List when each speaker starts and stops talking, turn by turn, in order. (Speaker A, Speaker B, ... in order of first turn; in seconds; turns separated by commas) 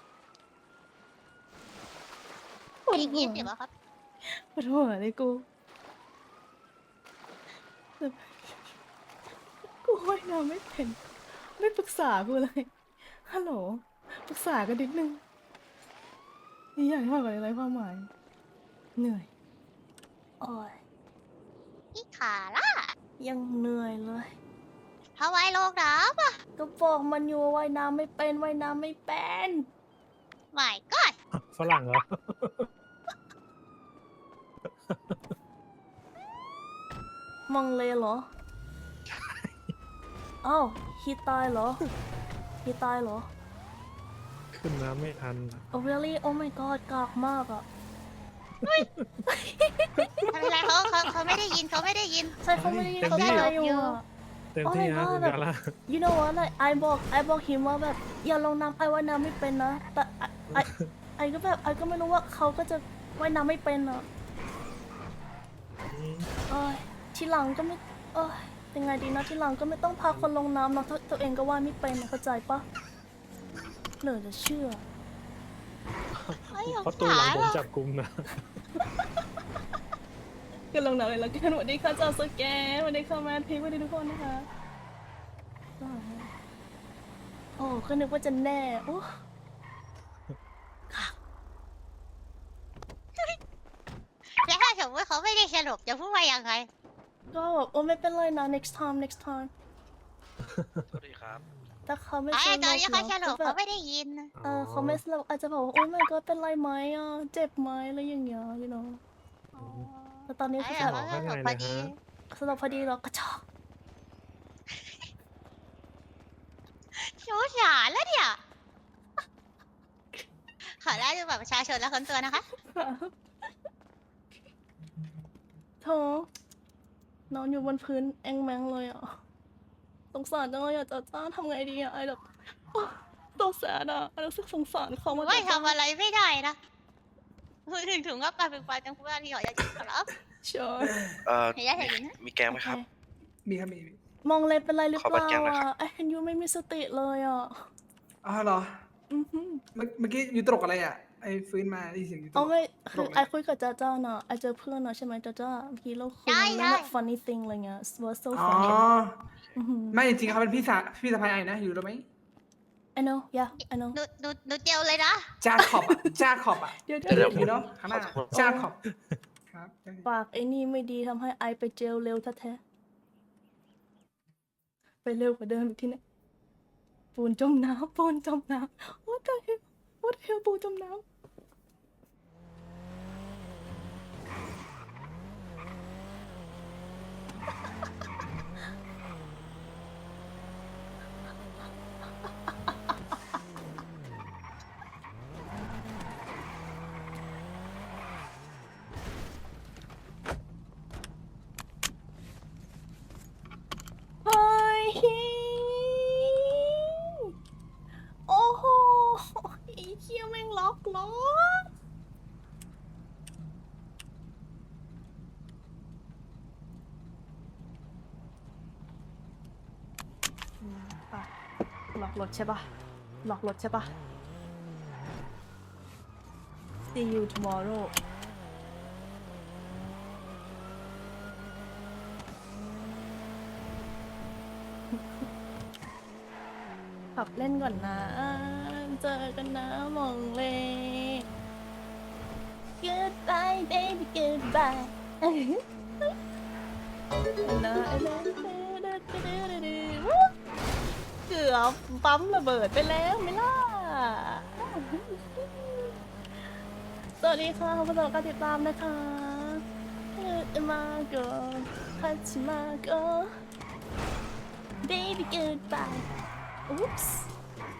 Speaker A: 2.9-3.5, Speaker B: 2.9-3.7, Speaker A: 4.3-5.5, Speaker A: 8.0-8.7, Speaker A: 9.8-11.0, Speaker A: 11.6-12.7, Speaker A: 13.2-15.2, Speaker A: 16.8-18.1, Speaker A: 19.0-19.3, Speaker A: 20.4-20.8, Speaker B: 21.9-22.9, Speaker A: 23.2-24.3, Speaker B: 25.2-26.4, Speaker A: 26.6-29.6, Speaker B: 30.5-31.1, Speaker C: 31.4-32.7, Speaker C: 34.9-35.3, Speaker A: 37.5-38.3, Speaker C: 39.1-39.7, Speaker A: 40.4-41.8, Speaker A: 42.6-43.3, Speaker C: 44.5-45.6, Speaker A: 45.7-47.6, Speaker C: 48.6-49.2, Speaker A: 48.7-50.3, Speaker C: 50.0-50.3, Speaker B: 50.3-52.4, Speaker A: 52.4-54.0, Speaker C: 52.5-53.5, Speaker B: 53.0-54.0, Speaker C: 54.5-55.7, Speaker A: 54.6-64.0, Speaker C: 60.5-60.9, Speaker C: 65.9-66.3, Speaker A: 66.5-72.7, Speaker A: 74.0-74.8, Speaker C: 76.2-78.2, Speaker B: 76.5-77.6, Speaker A: 80.7-84.5, Speaker A: 85.8-86.3, Speaker A: 87.6-89.2, Speaker A: 90.9-91.1, Speaker B: 94.4-96.7, Speaker A: 97.3-99.5, Speaker C: 100.6-100.8, Speaker D: 100.9-101.4, Speaker A: 101.9-103.6, Speaker B: 102.3-104.3, Speaker C: 104.3-105.0, Speaker A: 104.4-109.0, Speaker C: 109.5-109.9, Speaker B: 109.6-111.9, Speaker A: 110.3-111.0, Speaker C: 110.8-112.0, Speaker A: 112.3-113.4, Speaker B: 114.7-115.0, Speaker B: 116.9-118.4, Speaker B: 120.8-122.4, Speaker A: 122.5-123.1, Speaker A: 125.8-126.3, Speaker A: 127.3-129.2, Speaker A: 130.1-132.2, Speaker A: 132.7-135.7, Speaker B: 135.1-136.6, Speaker B: 137.7-140.1, Speaker A: 140.4-140.9, Speaker D: 141.2-142.8, Speaker B: 141.5-142.2, Speaker A: 142.5-142.8, Speaker E: 143.4-144.0, Speaker A: 144.2-147.6, Speaker D: 144.9-145.7, Speaker E: 148.2-148.7, Speaker A: 149.1-149.6, Speaker E: 149.7-153.2, Speaker A: 152.3-158.8, Speaker B: 156.3-156.9, Speaker E: 158.3-159.2, Speaker A: 159.6-160.0, Speaker E: 159.9-162.0, Speaker A: 162.9-164.0, Speaker B: 163.9-165.3, Speaker E: 165.4-168.8, Speaker A: 165.6-166.1, Speaker A: 166.8-167.5, Speaker D: 167.1-168.3, Speaker A: 168.3-168.7, Speaker E: 169.5-170.1, Speaker A: 170.0-172.6, Speaker A: 175.0-176.0, Speaker A: 177.1-181.0, Speaker A: 204.2-207.3, Speaker A: 208.3-211.7, Speaker A: 220.6-221.3, Speaker A: 221.9-222.7, Speaker A: 223.2-223.9, Speaker A: 226.9-227.9, Speaker A: 234.9-235.2, Speaker A: 237.1-241.2, Speaker A: 242.8-246.1, Speaker A: 247.4-250.3, Speaker A: 251.3-256.0, Speaker A: 257.2-259.6, Speaker A: 260.1-263.3, Speaker A: 264.8-266.1, Speaker A: 266.7-267.3